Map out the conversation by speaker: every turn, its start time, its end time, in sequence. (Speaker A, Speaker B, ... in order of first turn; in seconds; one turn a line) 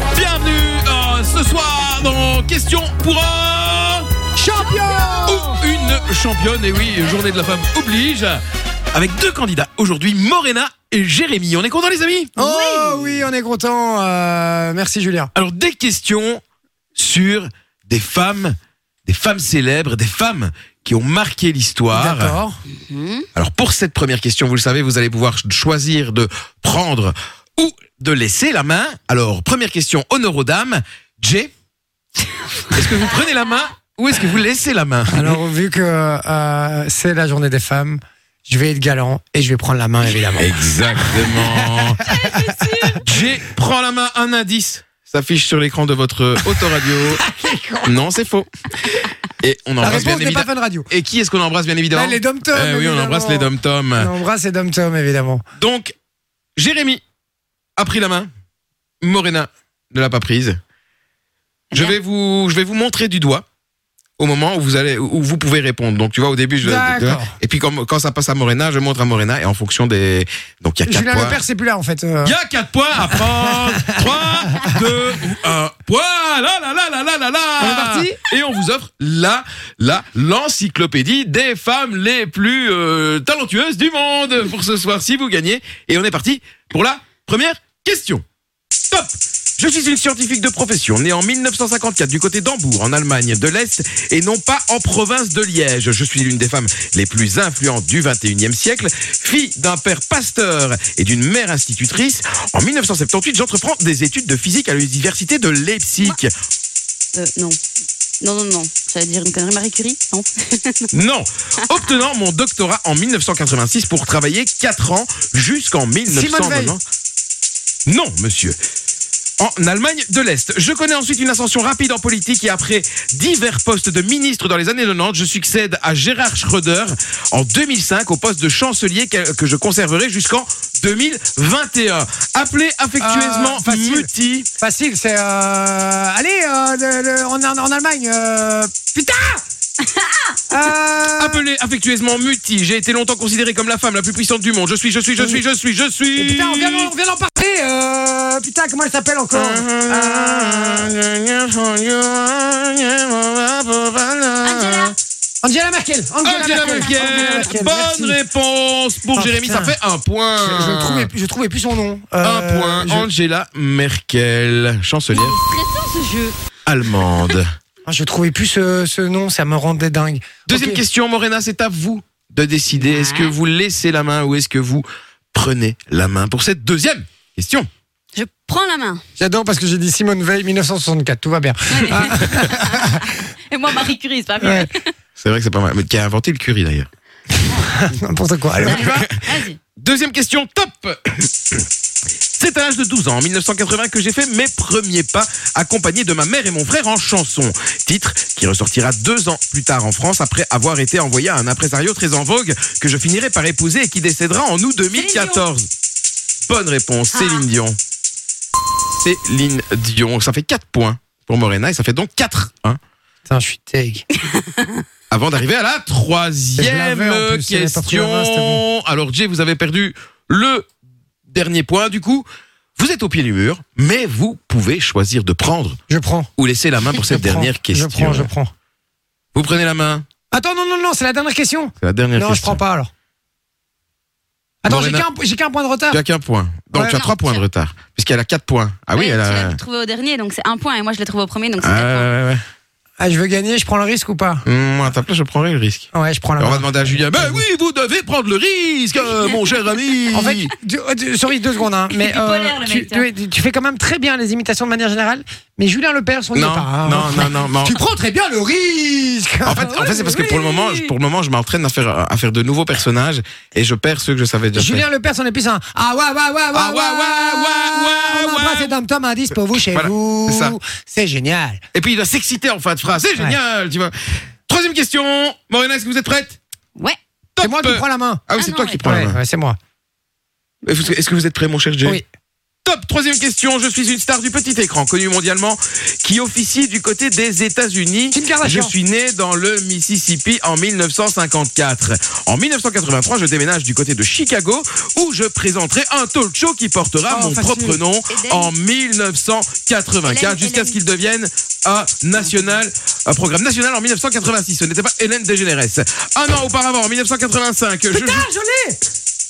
Speaker A: 0.1-4.1
Speaker B: 4.3-5.6
Speaker C: 4.7-5.2
Speaker A: 5.2-8.4
Speaker A: 8.9-12.3
Speaker C: 12.4-13.2
Speaker B: 12.4-15.3
Speaker A: 15.3-16.4
Speaker A: 16.9-18.6
Speaker A: 19.1-22.3
Speaker B: 21.9-22.6
Speaker C: 22.8-23.2
Speaker A: 23.3-31.5
Speaker A: 32.7-35.4
Speaker B: 35.1-43.0
Speaker A: 40.4-42.0
Speaker C: 42.1-43.0
Speaker A: 43.0-47.2
Speaker B: 46.5-48.0
Speaker A: 47.8-48.5
Speaker A: 49.4-54.1
Speaker B: 49.8-50.9
Speaker B: 51.9-55.4
Speaker A: 55.5-55.9
Speaker A: 56.5-57.0
Speaker A: 57.8-58.3
Speaker A: 59.0-60.6
Speaker C: 61.7-62.0
Speaker A: 61.7-63.4
Speaker A: 64.2-71.4
Speaker B: 66.6-67.3
Speaker B: 70.9-72.3
Speaker A: 72.2-88.2
Speaker B: 73.0-74.0
Speaker B: 77.6-78.2
Speaker A: 88.9-106.3
Speaker C: 107.1-107.6
Speaker C: 108.2-110.9
Speaker A: 110.9-116.8
Speaker B: 116.1-116.8
Speaker A: 117.9-118.6
Speaker A: 119.4-134.5
Speaker B: 133.0-139.4
Speaker C: 139.9-140.3
Speaker B: 140.5-141.4
Speaker A: 141.2-146.9
Speaker B: 146.2-150.9
Speaker A: 149.3-154.9
Speaker C: 154.4-154.9
Speaker B: 155.4-158.2
Speaker A: 156.2-161.1
Speaker C: 156.5-157.5
Speaker B: 159.1-159.8
Speaker B: 160.4-163.1
Speaker A: 162.2-165.4
Speaker C: 165.1-166.3
Speaker A: 166.6-167.5
Speaker B: 167.8-170.8
Speaker A: 170.5-177.7
Speaker C: 172.7-173.3
Speaker C: 178.1-179.0
Speaker B: 179.2-183.0
Speaker C: 181.7-184.9
Speaker B: 184.4-184.7
Speaker A: 185.2-186.9
Speaker B: 187.6-189.1
Speaker A: 188.6-189.2
Speaker C: 188.7-189.6
Speaker A: 189.8-191.6
Speaker A: 192.3-205.7
Speaker C: 204.9-205.4
Speaker A: 206.5-207.8
Speaker C: 207.1-207.4
Speaker A: 208.9-212.8
Speaker B: 213.3-214.1
Speaker C: 214.3-214.8
Speaker A: 215.1-220.7
Speaker B: 216.6-218.6
Speaker A: 221.3-222.2
Speaker A: 222.8-225.8
Speaker B: 225.9-226.3
Speaker A: 226.4-228.3
Speaker B: 227.1-228.5
Speaker A: 229.3-230.0
Speaker B: 230.3-232.9
Speaker A: 231.8-232.6
Speaker B: 234.6-236.0
Speaker A: 234.7-235.1
Speaker A: 235.9-239.6
Speaker B: 236.7-237.0
Speaker C: 236.9-237.4
Speaker C: 238.9-242.1
Speaker A: 241.6-242.4
Speaker B: 243.0-244.4
Speaker A: 244.4-250.5
Speaker B: 245.9-247.4
Speaker B: 250.1-259.7
Speaker C: 251.9-253.1
Speaker A: 256.3-257.8
Speaker A: 259.4-264.8
Speaker C: 259.6-260.9
Speaker B: 264.5-271.6
Speaker A: 266.5-268.7
Speaker A: 269.5-270.6
Speaker A: 271.7-273.9
Speaker A: 274.5-276.4
Speaker A: 277.4-279.2
Speaker B: 277.4-278.2
Speaker C: 278.3-278.8
Speaker B: 278.8-279.6
Speaker A: 280.6-282.0
Speaker A: 282.6-308.2
Speaker B: 288.1-288.7
Speaker B: 297.1-297.8
Speaker C: 298.1-298.5
Speaker C: 300.0-300.8
Speaker B: 307.9-308.8